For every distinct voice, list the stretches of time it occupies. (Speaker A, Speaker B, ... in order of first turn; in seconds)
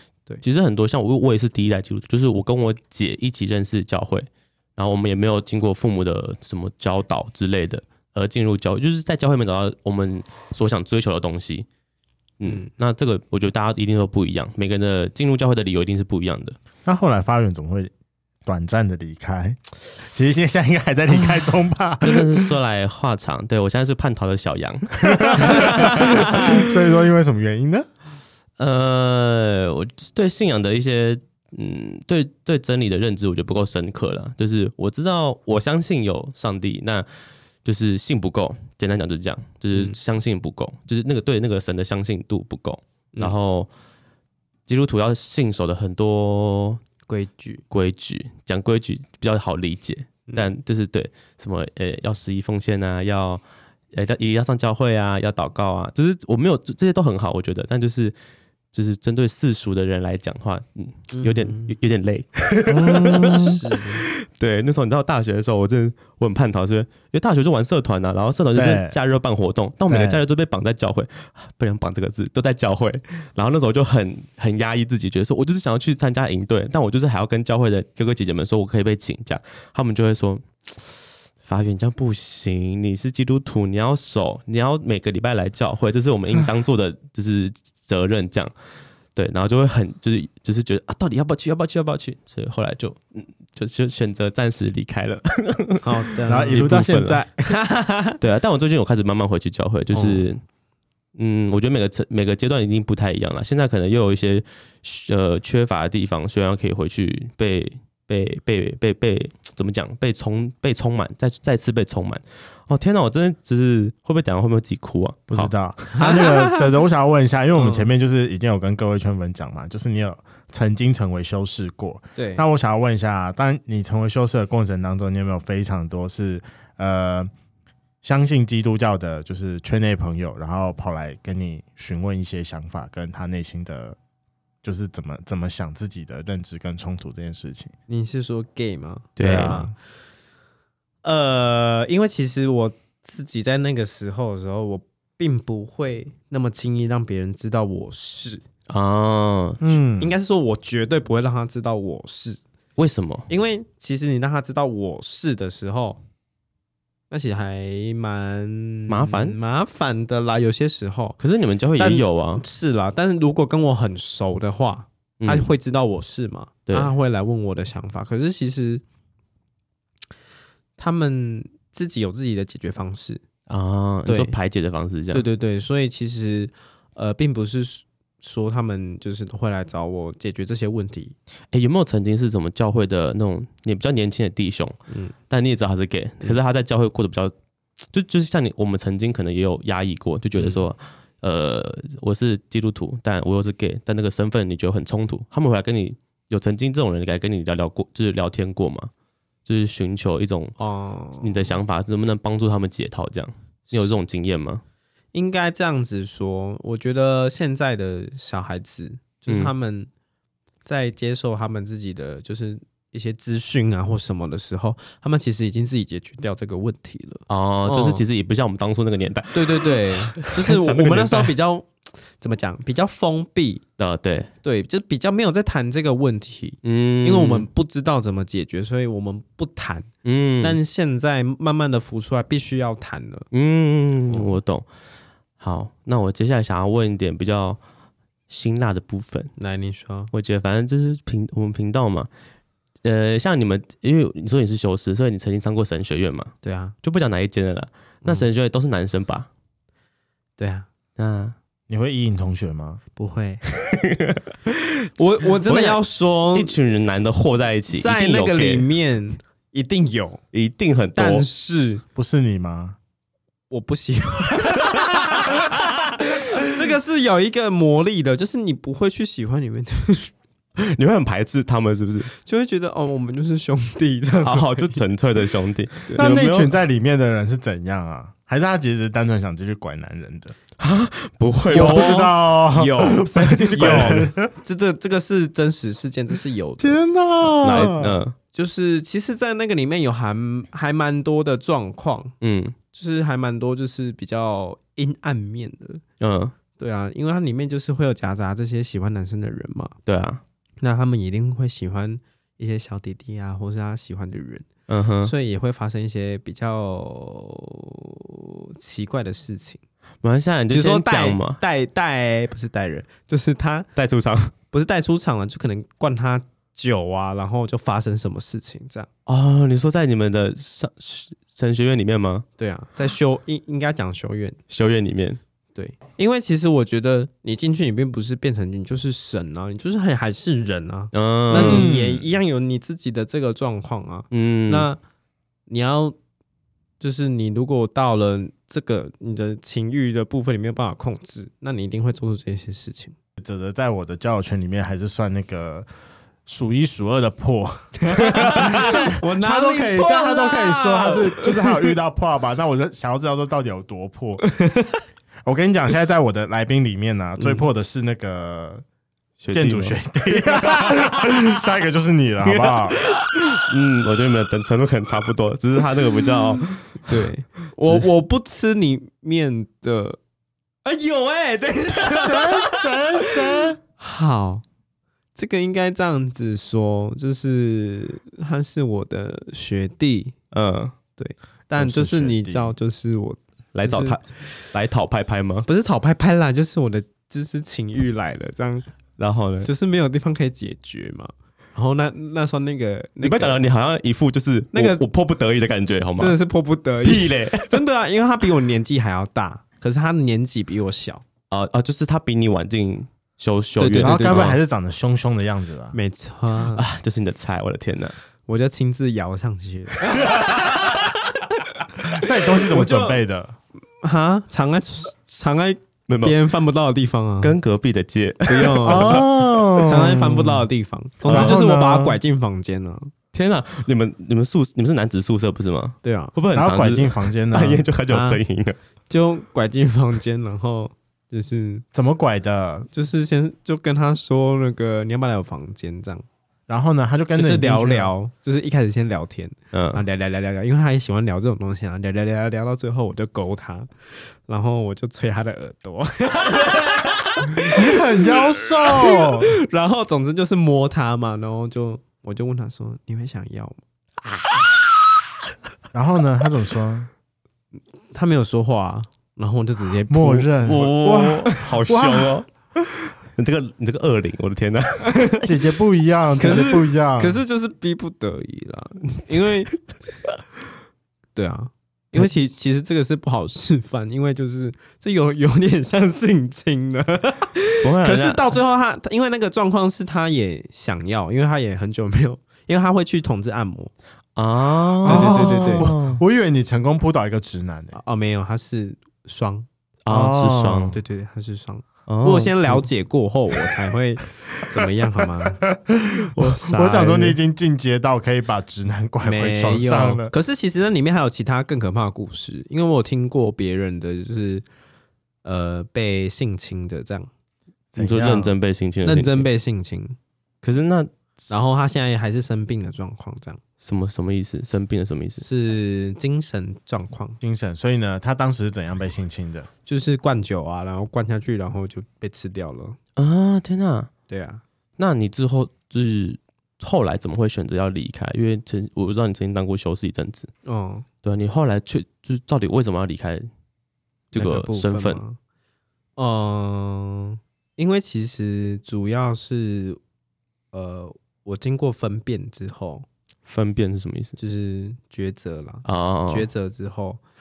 Speaker A: 0.4-11.7, 12.4-16.6, 22.0-26.7, 28.6-37.1, 37.6-43.7, 44.7-46.8, 47.7-53.4, 53.9-58.2, 58.7-80.9, 81.4-88.5, 89.2-97.2, 98.2-100.4, 101.2-115.5, 139.2-139.6, 148.7-149.6, 152.8-153.3, 158.9-159.4, 161.2-162.4, 165.2-165.5, 166.7-166.9, 173.5-175.2, 181.5-184.8, 185.3-187.3, 187.9-198.9, 199.5-200.5, 201.2-204.6, 209.3-209.5, 217.3-221.3, 223.8-224.3, 226.6-227.5, 230.1-230.6, 233.3-234.7, 235.4-237.6, 238.3-239.3, 240.1-242.1, 242.8-249.3, 251.0-251.4, 253.7-254.6, 255.4-255.8, 256.3-258.7, 260.3-261.3, 270.6-272.1, 274.2-276.5, 280.6-282.1, 283.1-284.1, 287.4-288.1, 292.2-292.6, 296.0-296.3, 299.9-300.2, 304.7-305.1, 310.0-311.4, 313.8-314.3, 319.1-322.2, 324.5-325.2, 330.9-331.7, 334.1-334.7, 359.2-359.8, 363.4-366.9, 380.3-380.8, 383.5-385.5, 389.0-389.5, 393.0-396.2, 396.8-397.6, 401.3-404.4, 406.5-408.0, 415.9-416.2, 417.2-419.5, 421.1-421.4, 423.1-428.6, 439.5-439.8, 460.4-465.1, 477.6-478.4, 484.2-486.0, 489.9-490.8, 491.9-492.6, 496.2-496.9, 507.8-509.3, 510.4-510.9, 513.6-515.3, 523.0-523.9, 524.8-530.3, 531.0-533.3, 534.1-535.0, 543.3-544.2, 545.6-546.3
Speaker B: 16.9-17.9, 18.5-22.5, 25.1-27.9, 62.7-63.6, 68.5-69.0, 69.9-70.2, 96.3-97.4, 115.3-127.3, 128.0-134.0, 134.6-137.7, 139.2-139.7, 149.6-150.1, 251.7-252.8, 261.9-262.8, 276.0-280.4, 281.5-284.3, 286.6-288.0, 331.3-332.1, 343.2-345.7, 346.3-354.2, 355.3-358.6, 359.3-362.8, 371.9-373.6, 381.5-382.5, 403.8-405.8, 411.9-413.4, 418.6-420.5, 421.1-422.0, 426.3-427.7, 431.7-432.7, 436.5-437.9, 447.5-449.3, 455.7-456.9, 459.9-462.1, 465.2-467.2, 484.9-487.8, 489.9-490.7, 495.5-500.1, 507.7-508.3, 517.2-519.5
Speaker C: 47.1-47.6, 61.1-61.8, 63.2-64.1, 95.8-96.7, 97.4-98.2, 99.9-100.2, 116.0-116.7, 117.6-117.9, 122.2-122.4, 137.9-139.7, 141.0-148.4, 150.0-152.4, 153.3-156.0, 157.1-161.2, 161.8-168.8, 170.8-173.2, 174.1-174.3, 175.1-181.2, 184.9-185.2, 190.4-190.6, 200.6-201.5, 205.1-209.9, 210.7-218.0, 219.3-223.6, 224.4-229.9, 230.4-233.3, 234.1-234.4, 239.4-240.1, 246.4-246.8, 250.4-250.7, 253.0-253.4, 255.0-256.6, 257.8-260.2, 261.0-261.8, 263.5-270.1, 272.2-274.8, 281.5-286.8, 288.3-292.1, 292.7-295.8, 296.6-299.8, 300.6-304.5, 305.0-309.6, 310.5-313.7, 314.5-318.9, 322.4-324.4, 325.6-334.8, 335.5-336.0, 336.8-342.9, 347.8-351.8, 354.2-354.8, 357.2-357.4, 366.9-370.0, 370.6-373.1, 373.8-374.4, 375.2-380.1, 381.0-384.3, 385.5-388.7, 389.4-393.4, 394.5-394.8, 396.0-401.0, 403.6-404.4, 405.7-406.6, 408.3-413.0, 413.8-417.4, 418.3-422.9, 425.8-426.1, 427.9-428.2, 428.9-431.6, 432.7-436.1, 437.1-453.6, 457.9-460.4, 464.9-465.3, 466.2-469.6, 471.1-483.7, 484.9-485.7, 487.7-489.5, 490.6-495.5, 496.3-497.1, 499.0-504.5, 505.2-507.1, 508.9-510.0, 511.3-513.4, 515.2-517.2, 519.7-522.8, 524.1-524.4, 530.5-530.9, 534.1-535.2, 536.0-539.8, 540.5-542.9, 544.2-547.0